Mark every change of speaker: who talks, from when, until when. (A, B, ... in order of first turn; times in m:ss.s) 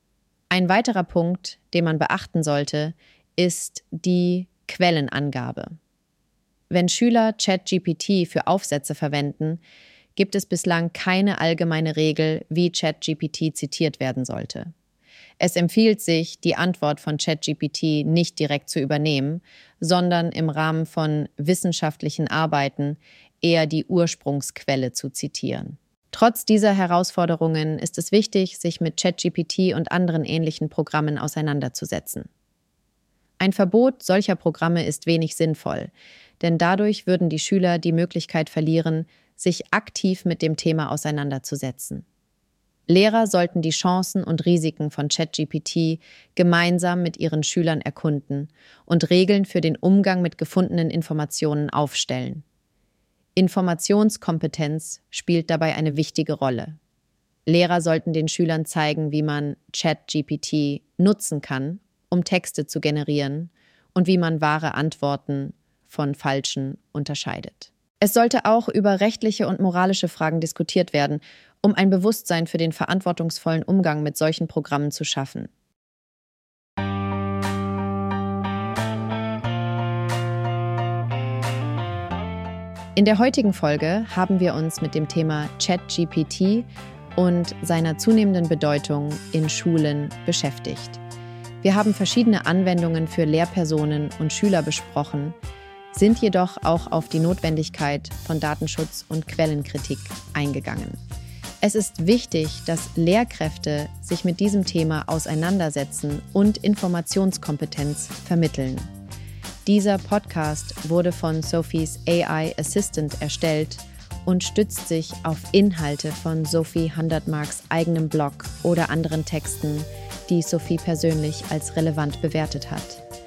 0:00.5-0:05.7 A
0:06.7-0:09.6 A
0:10.2-0:14.7 A
0:15.4-0:32.3 A
0:33.4-0:42.0 A
0:42.9-0:52.4 A
0:53.4-0:56.8 A
0:57.4-1:15.5 A
1:23.0-1:31.0 A
1:31.6-1:35.4 A
1:35.9-1:41.0 A
1:41.6-1:48.9 A
1:49.6-2:03.0 A